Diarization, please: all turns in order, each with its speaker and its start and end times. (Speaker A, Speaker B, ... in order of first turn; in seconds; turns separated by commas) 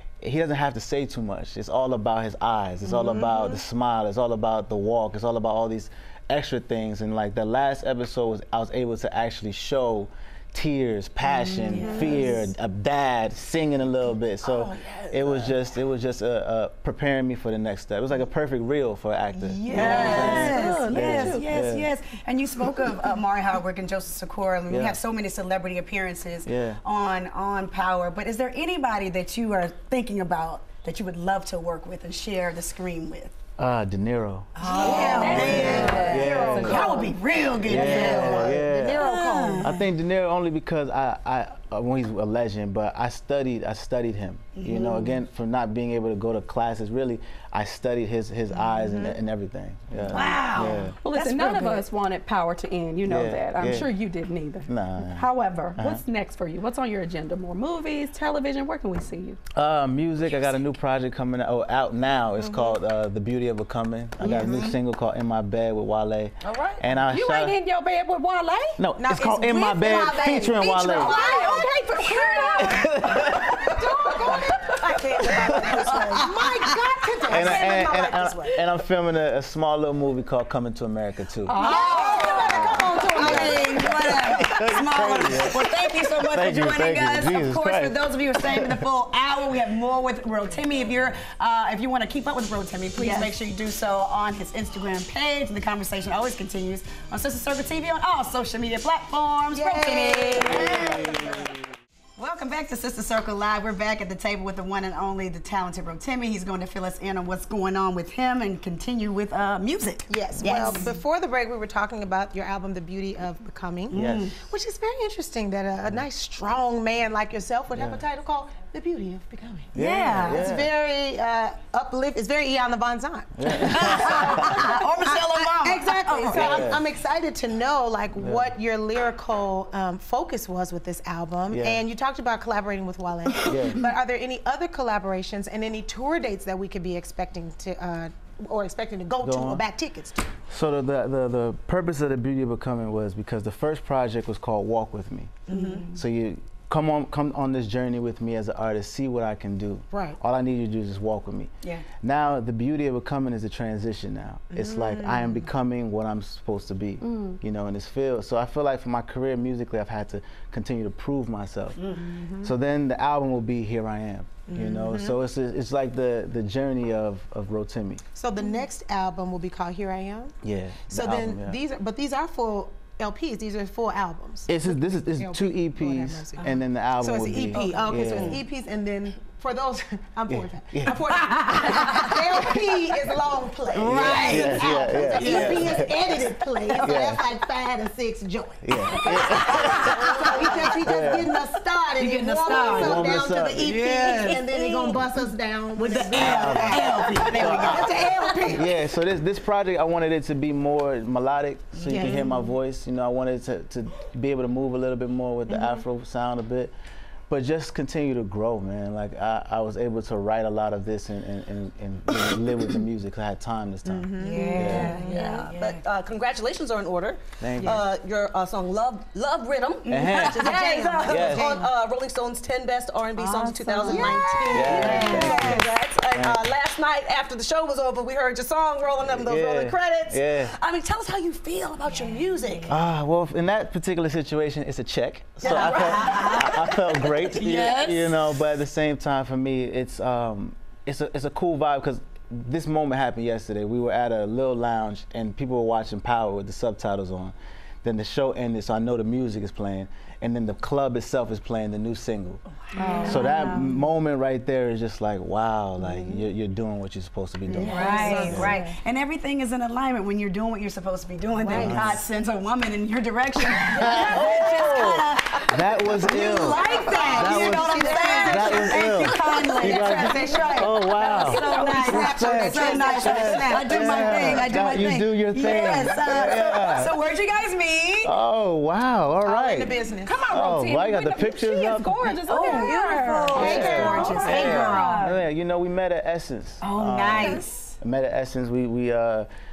Speaker A: 0.2-21.9, Speaker B: 2.9-3.5, Speaker B: 11.6-12.2, Speaker C: 11.7-12.5, Speaker B: 14.4-15.5, Speaker C: 19.4-33.3, Speaker B: 19.6-21.3, Speaker D: 19.9-21.4, Speaker A: 24.7-25.0, Speaker A: 26.4-26.8, Speaker A: 33.6-34.5, Speaker C: 34.6-39.8, Speaker B: 34.6-37.0, Speaker D: 34.8-37.1, Speaker E: 34.9-36.9, Speaker A: 35.1-36.8, Speaker A: 37.6-39.1, Speaker E: 37.7-39.8, Speaker B: 37.7-38.2, Speaker A: 39.6-51.0, Speaker C: 44.5-45.2, Speaker E: 48.8-49.2, Speaker C: 50.1-50.9, Speaker D: 51.0-59.4, Speaker E: 51.1-51.8, Speaker A: 53.0-53.9, Speaker A: 54.7-56.0, Speaker A: 59.5-67.6, Speaker E: 62.4-62.8, Speaker E: 64.2-64.5, Speaker C: 64.3-64.8, Speaker B: 66.5-66.8, Speaker D: 67.1-68.8, Speaker A: 68.8-71.2, Speaker E: 69.0-71.6, Speaker C: 69.4-72.5, Speaker D: 71.0-74.5, Speaker A: 72.6-73.5, Speaker E: 74.0-74.5, Speaker C: 74.7-76.5, Speaker E: 75.5-78.6, Speaker A: 77.3-81.6, Speaker D: 81.4-83.0, Speaker C: 81.6-101.5, Speaker E: 81.6-84.4, Speaker A: 82.3-85.7, Speaker A: 86.2-88.8, Speaker B: 93.0-93.3, Speaker E: 99.5-101.0, Speaker A: 100.5-101.4, Speaker C: 102.2-110.9, Speaker E: 110.1-140.2, Speaker C: 113.9-114.3, Speaker A: 113.9-114.3, Speaker A: 117.7-118.0, Speaker A: 119.7-120.7, Speaker C: 119.7-120.5, Speaker A: 123.4-124.7, Speaker C: 123.5-126.7, Speaker A: 126.3-126.8, Speaker A: 128.2-128.5, Speaker A: 131.5-131.8, Speaker A: 133.4-133.8, Speaker A: 139.2-139.6, Speaker A: 140.5-151.5, Speaker C: 145.5-145.9, Speaker E: 145.5-146.0, Speaker E: 149.9-150.2, Speaker A: 152.0-168.0, Speaker E: 154.5-155.4, Speaker D: 157.0-157.4, Speaker E: 161.9-162.5, Speaker E: 164.5-165.2, Speaker E: 168.1-170.3, Speaker A: 170.4-171.6, Speaker E: 170.9-198.7, Speaker A: 174.5-178.4, Speaker C: 177.5-177.8, Speaker A: 180.3-181.0, Speaker C: 181.1-182.2, Speaker C: 183.7-185.9, Speaker A: 183.9-185.9, Speaker A: 186.8-187.2, Speaker A: 188.6-191.3, Speaker C: 189.3-190.6, Speaker C: 192.0-193.0, Speaker A: 192.7-194.3, Speaker C: 193.8-195.0, Speaker C: 195.8-198.5, Speaker A: 196.2-197.9, Speaker A: 198.5-206.7, Speaker E: 201.8-202.2, Speaker A: 207.3-214.9, Speaker E: 213.8-215.3, Speaker C: 214.2-215.8, Speaker B: 214.7-232.8, Speaker A: 217.4-217.8, Speaker C: 219.8-221.4, Speaker A: 219.9-220.5, Speaker E: 220.2-221.7, Speaker A: 221.0-221.6, Speaker E: 223.2-225.6, Speaker C: 223.3-225.7, Speaker A: 224.5-226.5, Speaker A: 229.0-230.5, Speaker C: 231.8-232.7, Speaker A: 232.7-252.4, Speaker C: 235.4-236.5, Speaker B: 235.4-236.5, Speaker B: 237.5-238.1, Speaker C: 252.7-253.6, Speaker D: 252.7-253.7, Speaker A: 253.0-258.6, Speaker D: 255.8-256.2, Speaker C: 257.5-278.1, Speaker E: 257.6-258.6, Speaker D: 257.6-258.7, Speaker E: 261.4-262.0, Speaker A: 261.5-262.0, Speaker A: 263.8-266.6, Speaker B: 264.1-264.9, Speaker B: 266.7-267.2, Speaker E: 266.7-270.8, Speaker A: 267.1-277.0, Speaker B: 267.8-268.1, Speaker D: 271.1-272.1, Speaker E: 271.5-274.6, Speaker A: 278.0-279.8, Speaker E: 279.2-280.2, Speaker D: 280.0-285.2, Speaker A: 280.3-282.2, Speaker C: 282.3-285.2, Speaker E: 283.3-284.3, Speaker A: 283.3-289.3, Speaker C: 286.6-287.8